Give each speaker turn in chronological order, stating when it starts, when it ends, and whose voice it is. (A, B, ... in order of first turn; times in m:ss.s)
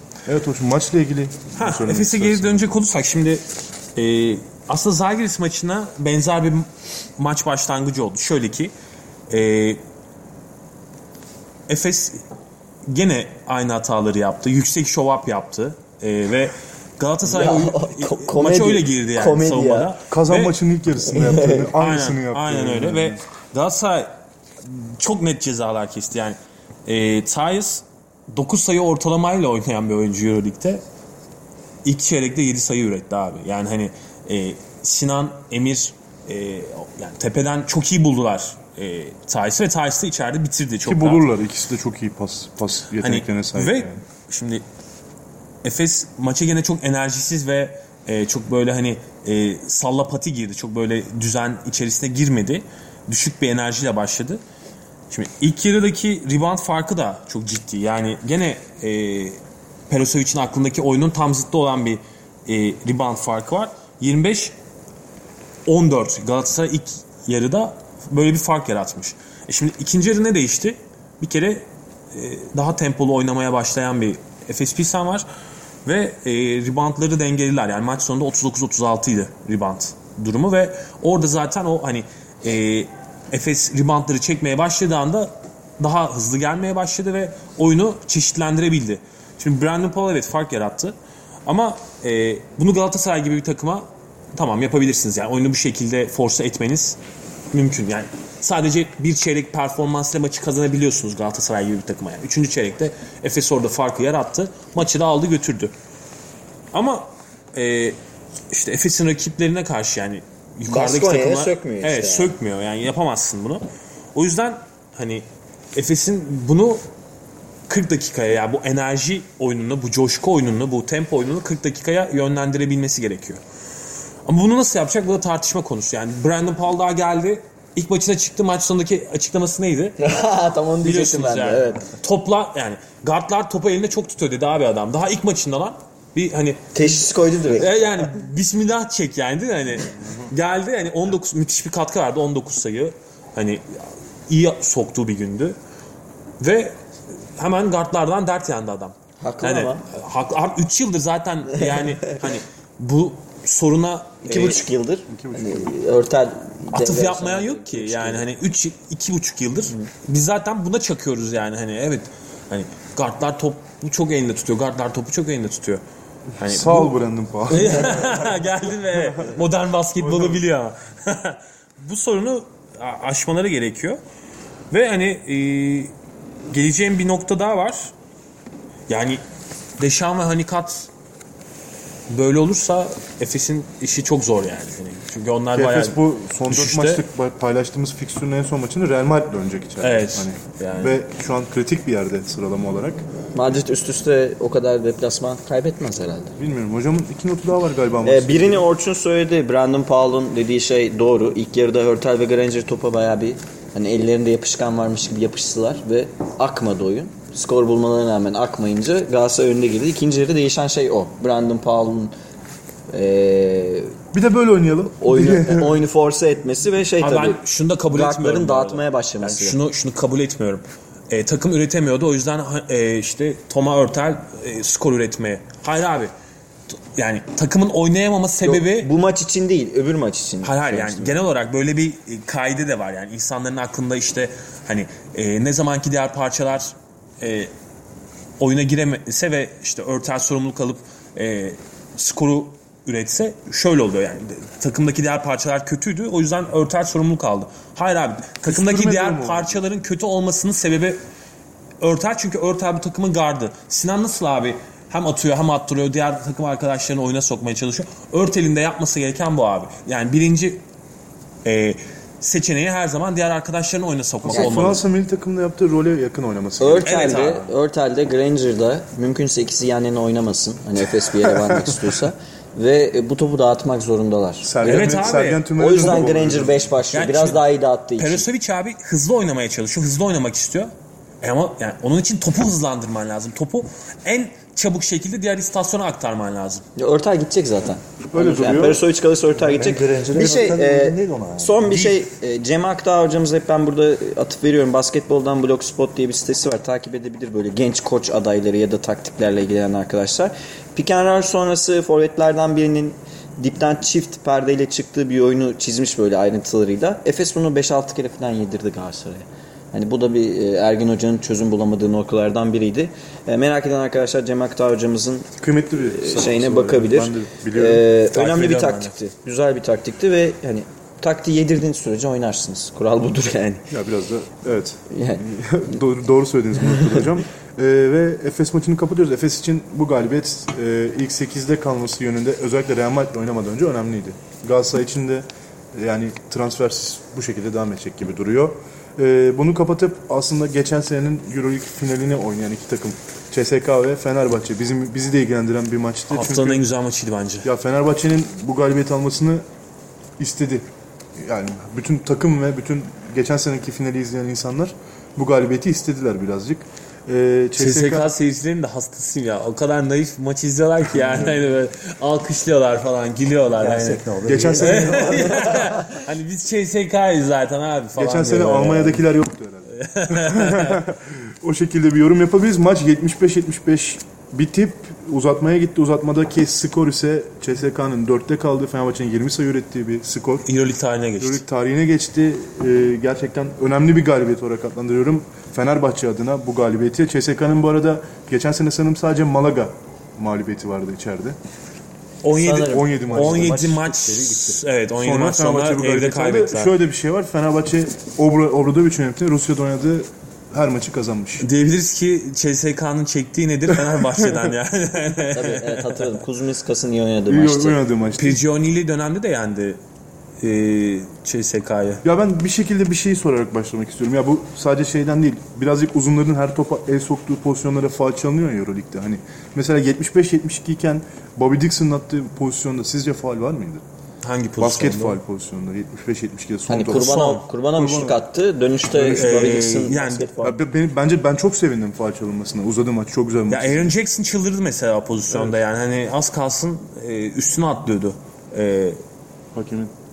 0:00.3-0:02.8 A
0:01.6-0:03.4 B
0:04.0-0:08.7 B
0:09.3-0:09.8 B
0:11.7-0:12.2 B
0:12.9-0:20.6 B
0:17.2-0:19.9 C
0:20.1-0:23.2 A
0:21.1-0:21.7 C
0:21.8-0:24.1 B
0:24.6-0:30.8 B
0:31.8-0:41.3 B
0:40.8-0:44.0 A
0:43.0-0:44.6 B
0:45.6-0:54.4 B
0:55.1-1:04.6 B
1:05.7-1:15.3 B
1:15.8-1:31.0 B
1:31.5-1:37.0 B
1:37.5-1:45.7 B
1:46.7-1:48.0 B
1:48.5-1:53.6 B
1:50.7-1:52.3 C
1:54.2-1:56.8 B
1:57.7-2:03.4 B
2:04.3-2:10.0 B
2:10.0-2:11.9 C
2:10.8-2:16.7 B
2:16.7-2:18.1 C
2:17.6-2:25.6 B
2:26.4-2:26.8 B
2:27.4-2:34.6 B
2:29.2-2:29.9 C
2:34.2-2:38.2 C
2:35.1-2:35.7 A
2:36.7-2:45.8 B
2:46.4-2:46.9 B
2:46.4-2:49.4 A
2:47.5-2:54.0 B
2:50.0-2:50.4 A
2:54.7-2:55.9 B
2:56.5-2:57.9 B
2:58.9-2:59.2 B
2:59.8-3:00.9 B
3:02.1-3:07.0 B
3:05.5-3:13.0 A
3:09.8-3:11.0 B
3:13.4-3:16.4 C
3:16.4-3:18.7 A
3:18.0-3:32.1 C
3:32.9-3:34.0 C
3:34.1-3:35.8 A
3:35.0-3:39.6 C
3:37.0-3:46.1 B
3:47.0-3:48.9 B
3:48.4-3:51.2 C
3:50.4-3:57.5 B
3:58.4-4:11.0 B
4:08.4-4:09.6 A
4:11.8-4:20.6 B
4:21.4-4:24.8 B
4:24.2-4:27.2 A
4:24.3-4:24.7 C
4:26.6-4:38.3 C
4:26.8-4:27.5 B
4:31.0-4:31.8 A
4:34.4-4:36.8 A
4:34.6-4:36.0 B
4:36.9-4:37.4 B
4:38.0-4:46.6 B
4:46.8-5:23.7 C
4:48.1-4:48.8 A
4:49.5-4:51.6 D
4:51.7-4:51.9 B
5:15.4-5:17.9 A
5:18.1-5:18.9 B
5:23.7-5:46.6 A
5:24.9-5:25.2 C
5:46.1-5:47.5 B
5:47.4-5:49.4 A
5:50.2-5:50.7 A
5:51.2-5:58.1 A
5:57.6-6:04.0 B
6:01.0-6:01.4 A
6:03.6-6:05.8 D
6:04.2-6:05.6 A
6:04.6-6:09.0 B
6:08.0-6:20.4 A
6:09.7-6:10.8 B
6:20.4-6:21.4 B
6:21.2-6:31.4 A
6:32.2-6:36.7 B
6:32.3-6:33.2 C
6:32.5-6:33.7 A
6:33.2-6:34.6 D
6:35.0-6:41.5 A
6:41.4-6:46.1 B
6:43.9-6:44.2 A
6:45.3-6:47.8 C
6:47.3-6:48.4 A
6:48.2-6:49.8 B
6:50.4-6:52.0 B
6:52.0-7:03.8 A
7:04.2-7:05.2 B
7:04.6-7:08.2 A
7:06.7-7:10.6 C
7:08.9-7:09.7 A
7:09.2-7:10.3 B
7:10.4-7:13.9 A
7:13.5-7:19.0 B
7:19.6-7:19.9 A